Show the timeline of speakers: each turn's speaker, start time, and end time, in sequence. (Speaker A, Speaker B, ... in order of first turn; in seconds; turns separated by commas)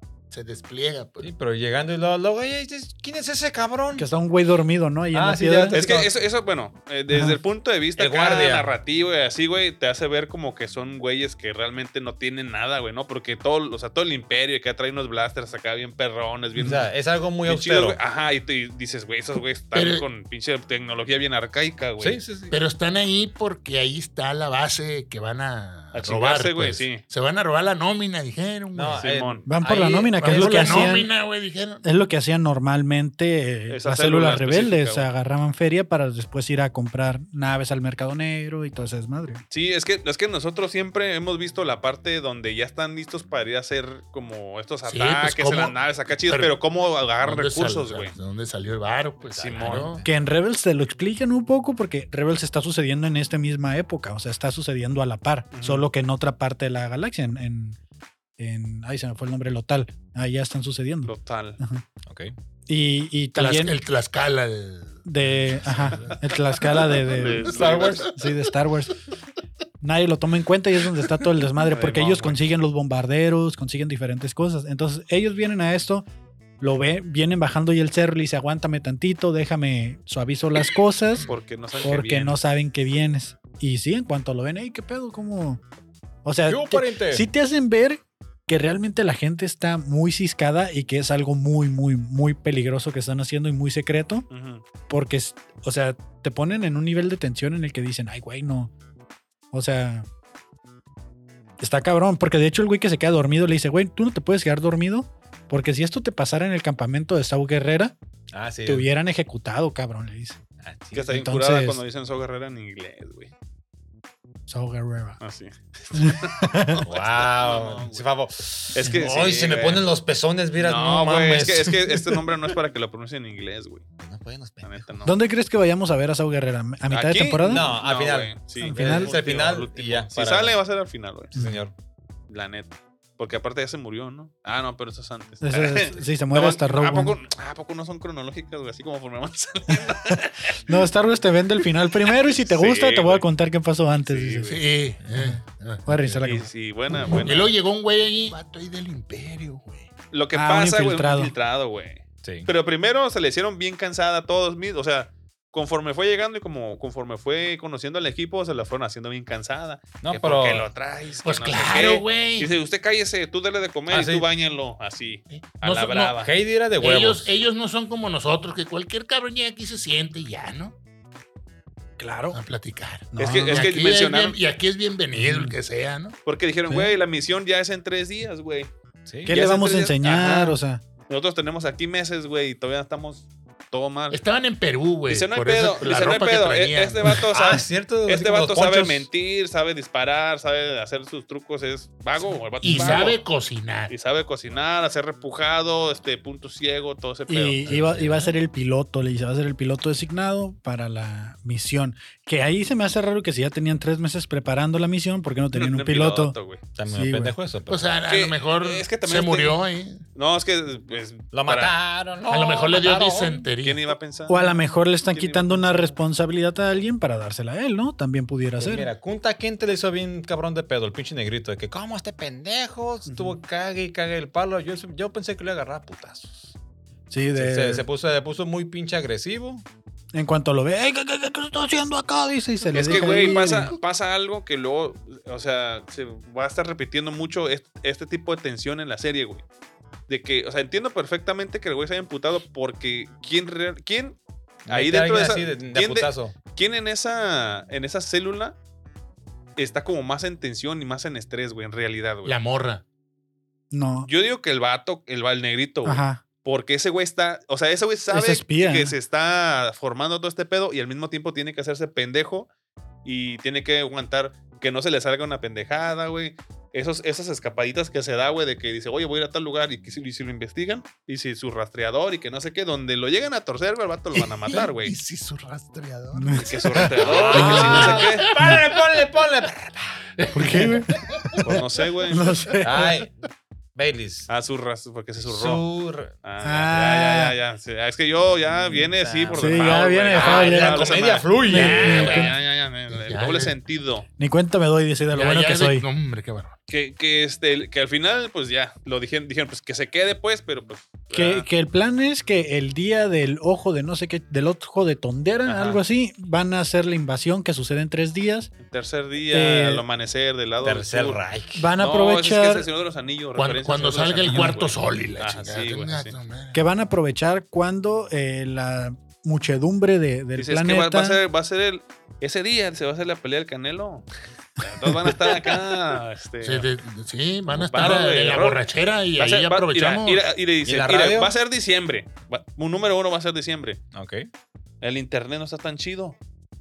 Speaker A: 0.3-1.3, Speaker B: 1.2-4.1, Speaker C: 4.0-5.8, Speaker B: 5.1-6.1, Speaker D: 5.7-16.9, Speaker C: 7.1-7.4, Speaker B: 8.0-8.7, Speaker B: 16.6-18.0, Speaker D: 17.5-22.2, Speaker A: 19.7-20.1, Speaker B: 22.0-22.6, Speaker A: 22.5-29.1, Speaker D: 25.9-27.0, Speaker B: 28.7-31.0, Speaker D: 29.0-29.4, Speaker C: 29.5-31.1, Speaker A: 30.2-31.9, Speaker C: 31.8-39.4, Speaker D: 33.7-35.1, Speaker D: 39.5-48.1, Speaker A: 44.9-46.5, Speaker A: 47.2-50.0, Speaker D: 49.4-50.0, Speaker B: 49.4-50.1, Speaker C: 50.0-57.8, Speaker D: 55.5-55.9, Speaker C: 58.4-61.8, Speaker D: 61.1-61.6, Speaker B: 62.1-62.3, Speaker C: 62.7-63.8, Speaker A: 63.4-67.0, Speaker C: 65.0-67.5, Speaker D: 67.0-68.1, Speaker B: 67.5-68.1, Speaker C: 68.1-69.0, Speaker C: 69.8-76.1, Speaker D: 71.6-72.5, Speaker C: 76.6-85.6, Speaker D: 81.3-82.4, Speaker C: 86.2-94.3, Speaker B: 86.5-87.3, Speaker D: 94.3-94.6, Speaker C: 94.9-98.7, Speaker C: 99.5-100.1, Speaker C: 101.6-108.0, Speaker B: 108.3-108.9, Speaker C: 108.7-110.4, Speaker B: 110.6-111.2, Speaker D: 110.9-113.3, Speaker C: 111.1-111.8, Speaker C: 114.5-115.2, Speaker D: 115.2-118.0, Speaker C: 115.9-116.8, Speaker B: 116.8-122.0, Speaker D: 118.7-119.9, Speaker D: 120.6-123.8, Speaker B: 124.0-125.1, Speaker D: 124.6-125.1, Speaker C: 125.0-127.7, Speaker D: 126.9-131.3, Speaker B: 127.5-130.5, Speaker C: 128.6-129.2, Speaker C: 131.3-131.6, Speaker B: 131.3-131.7, Speaker D: 132.3-140.6, Speaker C: 135.4-137.2, Speaker C: 139.7-144.6, Speaker D: 142.4-143.3, Speaker D: 144.0-144.6, Speaker A: 144.5-146.2, Speaker C: 145.9-146.5, Speaker D: 146.2-147.5, Speaker A: 147.2-149.9, Speaker D: 150.1-166.3, Speaker C: 150.3-151.3, Speaker B: 152.2-152.5, Speaker B: 160.0-160.7, Speaker A: 161.2-162.5, Speaker B: 163.9-164.3, Speaker A: 165.3-166.2, Speaker B: 166.2-167.3, Speaker A: 166.8-170.7, Speaker C: 172.0-172.4, Speaker A: 172.3-176.2, Speaker C: 173.1-173.7, Speaker D: 173.2-174.4, Speaker C: 175.2-175.6, Speaker D: 176.3-178.7, Speaker C: 176.7-177.0, Speaker B: 179.1-179.4, Speaker D: 179.3-180.6, Speaker C: 179.3-180.8, Speaker D: 181.1-184.2, Speaker A: 184.1-187.2, Speaker D: 185.1-193.2, Speaker B: 187.3-189.1, Speaker A: 192.6-193.9, Speaker C: 192.7-193.0, Speaker D: 193.9-197.7, Speaker C: 197.3-206.4, Speaker B: 197.7-198.3, Speaker D: 205.5-206.6, Speaker B: 206.8-207.9, Speaker C: 206.9-207.3, Speaker A: 207.7-210.0, Speaker D: 208.1-209.6, Speaker D: 210.2-211.7, Speaker B: 211.3-213.5, Speaker A: 212.3-213.8, Speaker D: 213.6-214.5, Speaker C: 214.3-218.9, Speaker D: 215.1-216.0, Speaker B: 218.6-226.6, Speaker C: 227.1-227.8, Speaker B: 227.3-229.7, Speaker C: 230.1-233.8, Speaker D: 232.7-239.4, Speaker D: 240.1-244.2, Speaker B: 244.7-246.3, Speaker D: 244.7-248.6, Speaker D: 249.6-252.4, Speaker A: 252.2-252.8, Speaker C: 253.7-254.1, Speaker D: 254.1-262.5, Speaker C: 255.8-256.2, Speaker C: 258.1-258.9, Speaker D: 263.1-275.0, Speaker A: 274.1-278.6, Speaker C: 276.1-277.8, Speaker D: 276.3-278.3, Speaker B: 277.0-280.0, Speaker A: 280.2-281.4, Speaker C: 280.3-283.0, Speaker D: 281.4-282.3, Speaker B: 282.6-283.1, Speaker B: 283.8-284.3, Speaker D: 284.3-285.6, Speaker B: 285.2-286.1, Speaker D: 286.2-294.1, Speaker C: 286.4-287.4, Speaker B: 288.6-292.2, Speaker C: 289.3-292.4, Speaker A: 291.5-292.4, Speaker A: 292.9-293.6, Speaker C: 294.2-295.9, Speaker A: 295.1-296.6, Speaker D: 296.7-301.5, Speaker C: 301.1-308.5, Speaker D: 305.5-305.8, Speaker D: 308.6-311.2, Speaker C: 309.3-309.8, Speaker B: 310.6-311.7, Speaker C: 311.6-312.7, Speaker D: 311.8-316.2, Speaker A: 313.4-316.6, Speaker C: 314.3-314.6, Speaker C: 316.5-321.2, Speaker D: 320.4-324.1, Speaker D: 324.6-326.7, Speaker A: 326.4-330.2, Speaker D: 327.5-328.6, Speaker D: 329.2-333.8, Speaker B: 330.6-331.3, Speaker B: 333.9-334.3, Speaker D: 334.8-336.2